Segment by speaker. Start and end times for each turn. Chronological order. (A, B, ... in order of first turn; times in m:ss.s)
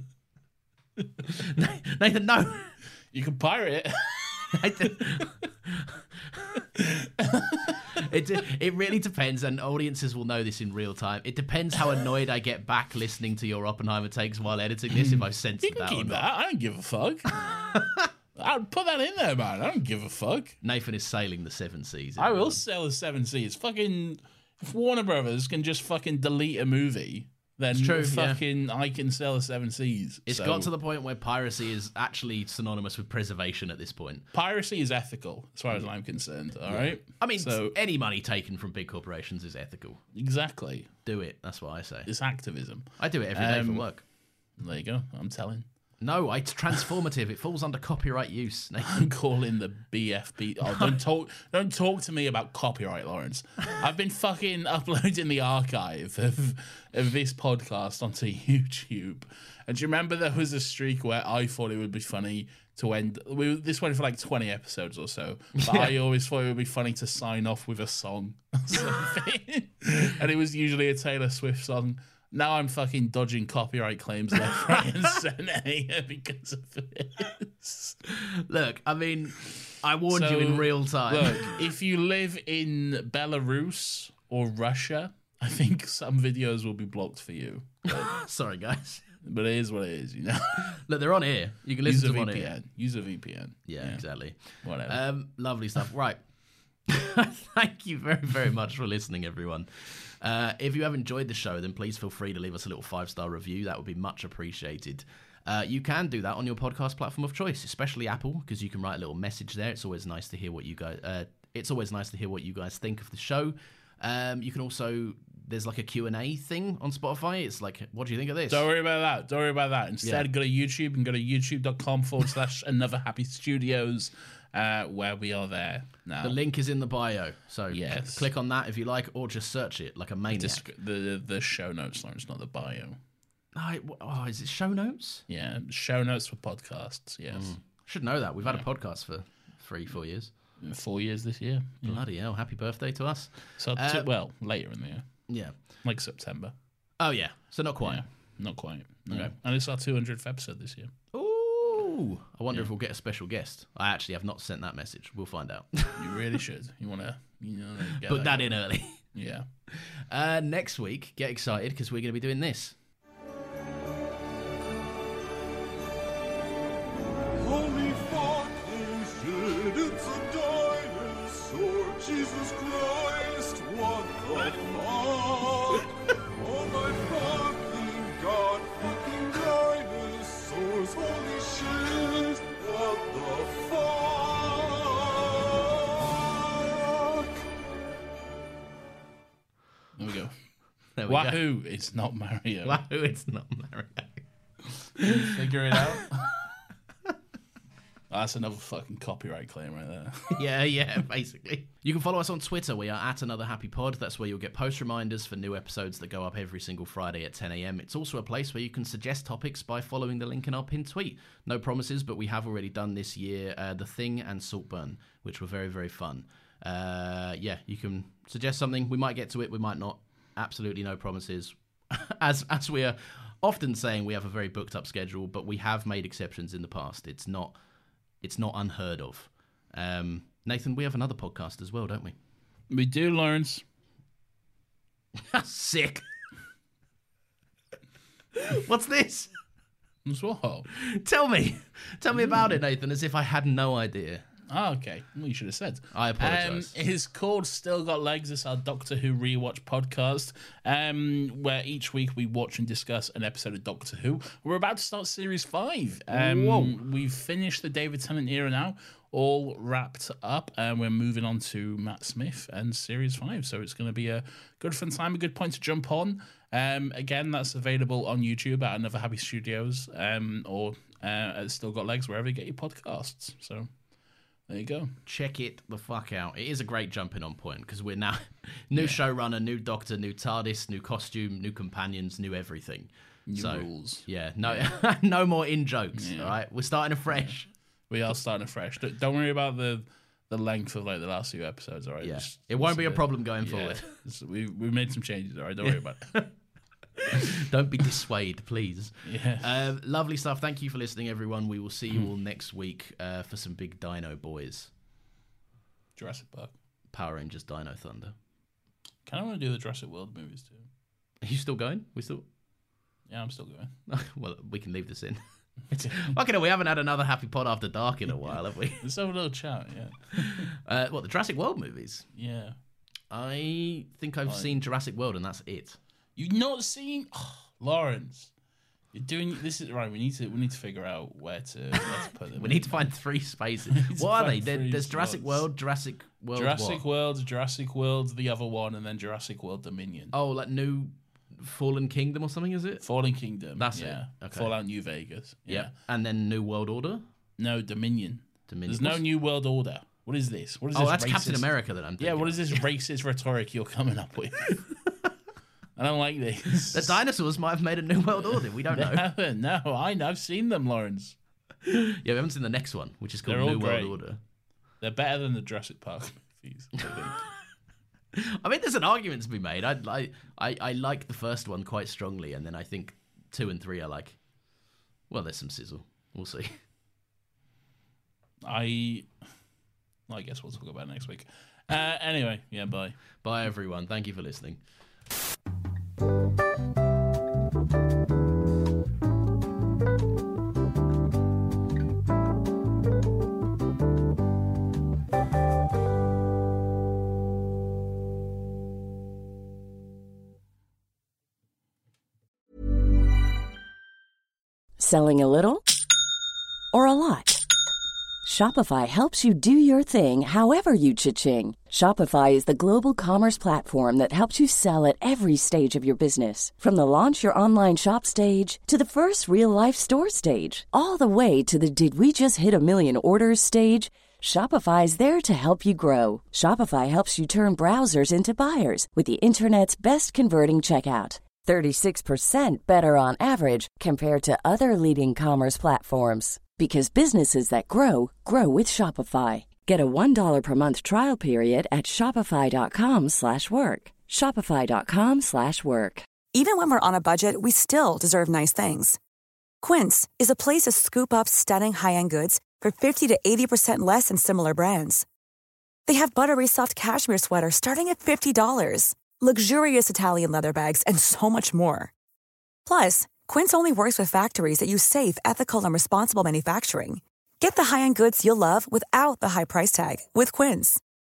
0:01.3-0:02.7 A
0:03.1-0:04.9 B
0:04.6-0:05.9 A
0:06.8-0:07.9 B
0:08.0-0:16.2 A
0:14.9-0:17.5 B
0:17.7-0:18.0 A
0:18.4-0:20.6 B
0:20.6-0:22.6 A
0:22.2-0:30.7 B
0:27.7-0:28.4 A
0:30.3-0:34.2 A
0:34.3-0:37.8 B
0:36.7-0:40.0 A
0:40.1-0:40.9 B
0:41.0-0:42.1 A
0:42.0-0:45.6 B
0:43.0-0:44.0 A
0:46.0-0:49.1 A
0:48.9-1:18.0 B
0:50.6-0:50.9 A
1:05.6-1:05.9 A
1:18.5-1:21.5 A
1:20.1-1:28.1 B
1:27.9-1:29.0 A
1:29.2-1:30.8 B
1:30.7-1:32.5 A
1:31.8-1:35.0 B
1:33.6-1:36.2 A
1:36.9-1:58.6 A
1:58.5-2:06.4 B
2:00.0-2:00.3 A
2:06.2-2:10.6 A
2:07.7-2:08.3 B
2:10.3-2:13.0 B
2:13.6-2:15.2 A
2:15.3-2:17.5 B
2:17.3-2:20.3 A
2:20.6-2:22.0 B
2:21.8-2:24.0 A
2:23.6-2:26.5 B
2:25.3-2:25.5 A
2:27.0-2:28.0 A
2:27.8-2:30.9 B
2:31.1-2:36.0 A
2:36.0-2:39.4 B
2:38.0-2:39.0 A
2:40.1-2:42.7 A
2:47.4-3:05.6 C
3:06.6-3:07.3 C
3:10.0-3:10.4 B
3:11.0-3:11.4 A
3:11.0-3:12.8 B
3:12.6-3:14.2 A
3:15.0-3:16.3 B
3:18.1-3:20.4 B
3:20.3-3:47.6 A
3:48.2-3:52.2 A
3:52.7-3:53.6 B
3:55.3-3:56.0 A
3:58.4-3:59.3 A
4:00.0-4:00.7 B
4:00.8-4:04.2 A
4:04.5-4:33.7 B
4:05.9-4:06.7 A
4:16.1-4:16.8 A
4:34.5-4:34.9 B
4:35.0-4:47.5 A
4:38.7-4:39.0 B
4:43.3-4:44.7 B
4:45.9-4:46.4 B
4:47.1-4:47.4 B
4:47.9-4:56.2 B
4:52.0-4:53.9 A
4:55.6-4:56.3 A
4:57.0-5:04.7 A
4:59.0-4:59.5 B
5:06.0-5:06.5 B
5:06.9-5:08.1 A
5:09.0-5:10.7 B
5:11.2-5:12.2 A
5:13.1-5:13.7 B
5:13.9-5:18.8 A
5:15.8-5:16.0 B
5:18.3-5:20.5 B
5:20.6-5:22.0 A
5:22.1-5:22.6 B
5:23.1-5:25.8 A
5:24.3-5:24.5 B
5:26.2-5:28.3 B
5:28.9-5:32.9 B
5:32.4-5:36.8 A
5:33.7-5:35.4 B
5:36.3-5:40.1 B
5:40.1-5:42.8 A
5:42.8-5:45.7 B
5:43.6-5:44.5 A
5:45.5-5:47.0 A
5:47.4-5:54.7 B
5:48.5-5:49.0 A
5:50.7-5:52.6 A
5:55.8-5:57.0 B
5:56.7-5:59.0 A
5:58.2-6:01.2 B
6:01.6-6:04.2 A
6:03.2-6:04.0 B
6:04.8-6:07.2 B
6:08.2-6:14.2 A
6:15.1-6:16.5 A
6:18.4-6:19.1 B
6:20.1-6:23.0 B
6:23.2-6:24.6 A
6:44.8-6:45.6 D
6:46.7-6:47.4 D
6:48.2-7:26.1 D
7:26.3-7:29.0 E
7:29.6-7:35.0 E
7:35.8-7:41.9 E
7:42.6-7:50.8 E